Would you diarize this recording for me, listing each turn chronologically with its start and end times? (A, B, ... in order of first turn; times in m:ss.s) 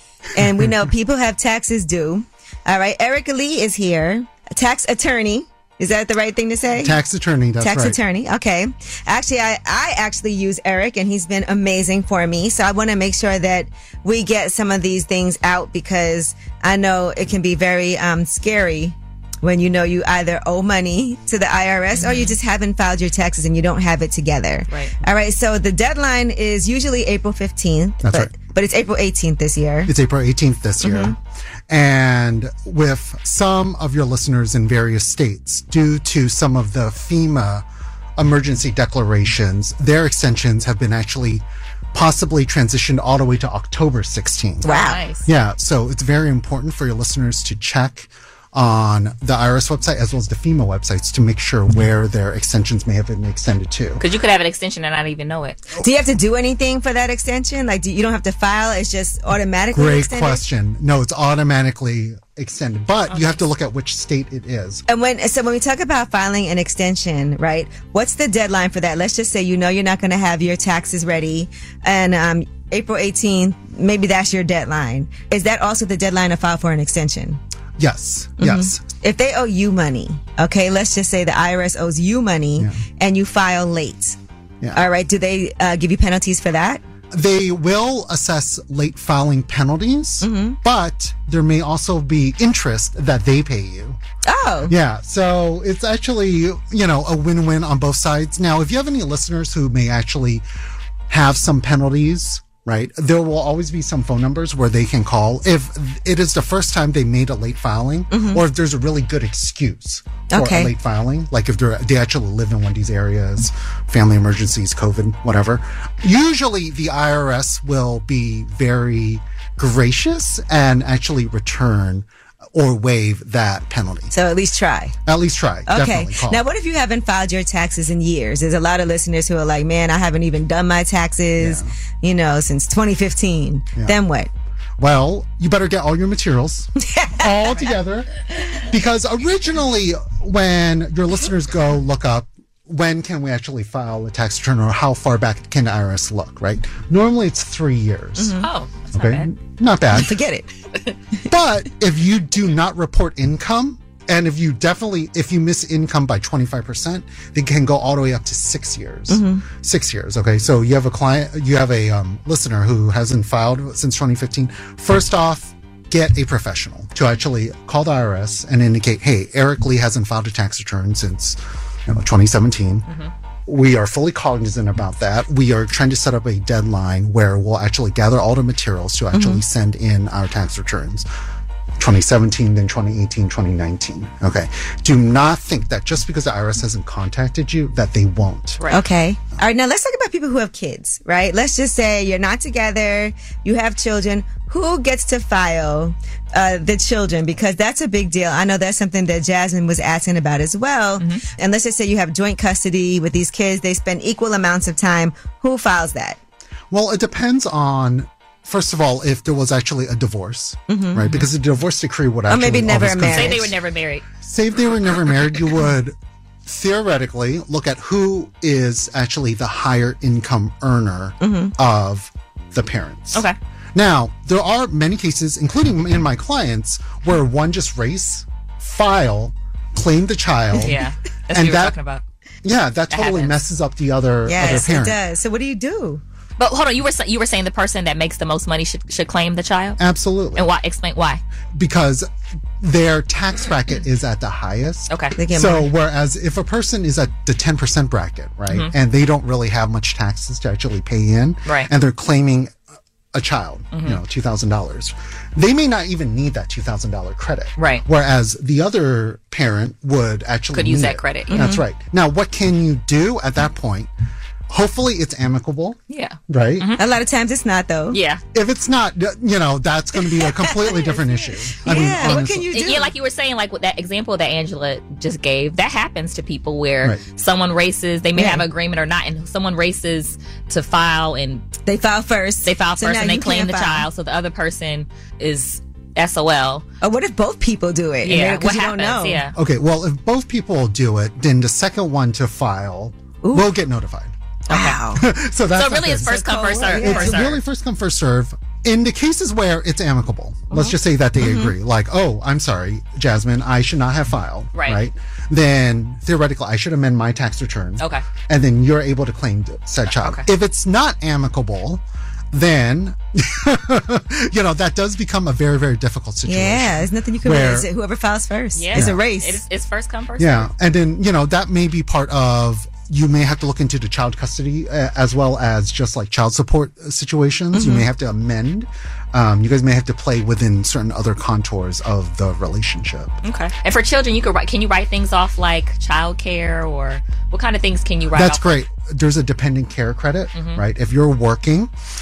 0:00.3-0:07.0 A
0:06.8-0:08.0 B
0:07.6-0:29.9 A
0:21.9-0:22.4 C
0:24.7-0:24.9 C
0:28.0-0:28.3 B
0:29.8-0:31.2 B
0:30.8-0:31.1 A
0:31.7-0:37.6 B
0:38.2-0:44.7 B
0:44.6-0:45.3 C
0:44.6-0:45.0 A
0:45.2-0:54.0 B
0:54.0-0:55.6 C
0:55.8-1:00.4 A
0:59.7-1:04.8 B
1:03.1-1:03.4 C
1:04.9-1:17.4 A
1:17.8-1:18.8 B
1:18.4-1:24.2 A
1:24.7-1:26.8 A
1:27.1-1:34.0 B
1:30.2-1:30.6 A
1:34.2-1:34.7 A
1:34.7-1:40.4 B
1:41.1-2:04.1 B
1:48.1-1:48.4 A
1:50.3-1:50.7 A
2:04.1-2:04.9 A
2:05.0-2:06.4 B
2:05.7-2:14.3 A
2:11.4-2:11.7 B
2:14.8-2:18.1 B
2:16.9-2:17.7 A
2:18.7-2:28.4 B
2:28.2-2:28.4 A
2:28.3-2:29.3 C
2:28.9-2:30.1 B
2:29.9-2:30.5 A
2:31.3-2:52.9 B
2:39.1-2:39.4 A
2:53.4-3:01.0 B
2:59.1-2:59.4 A
3:01.8-3:08.6 B
3:08.7-3:26.2 A
3:26.7-3:33.5 B
3:30.7-3:31.0 A
3:32.3-3:33.5 A
3:33.0-3:34.0 C
3:34.2-3:35.9 B
3:36.4-3:51.8 B
3:41.2-3:41.5 A
3:50.5-3:52.0 C
3:52.4-3:55.0 B
3:52.9-3:53.4 C
3:54.2-3:56.0 A
3:56.4-3:59.8 C
3:59.8-4:00.5 B
4:00.3-4:01.2 C
4:01.5-4:02.1 B
4:02.6-4:12.5 B
4:05.2-4:05.7 A
4:11.4-4:11.7 C
4:13.1-4:23.9 B
4:13.7-4:14.0 C
4:17.6-4:17.8 C
4:20.5-4:21.6 C
4:21.3-4:21.6 A
4:24.5-4:26.7 B
4:25.9-4:26.8 C
4:26.8-4:28.0 A
4:27.9-4:28.2 C
4:28.3-4:32.5 B
4:30.2-4:30.7 A
4:31.6-4:32.9 A
4:31.6-4:41.5 C
4:38.2-4:38.4 A
4:41.6-4:43.8 A
4:42.4-4:46.6 C
4:46.8-4:49.2 A
4:48.0-4:49.3 C
4:49.3-4:54.1 B
4:54.5-4:54.8 C
4:54.5-4:55.0 A
4:54.9-5:17.7 B
4:55.5-4:57.4 C
4:56.0-4:57.2 A
5:00.5-5:00.8 C
5:01.2-5:01.5 A
5:04.5-5:04.8 C
5:10.0-5:10.2 C
5:16.2-5:19.4 A
5:18.5-5:20.5 C
5:18.7-5:19.0 B
5:20.2-5:33.2 B
5:27.5-5:27.8 A
5:33.2-5:38.5 C
5:38.1-5:41.7 B
5:40.3-5:40.6 C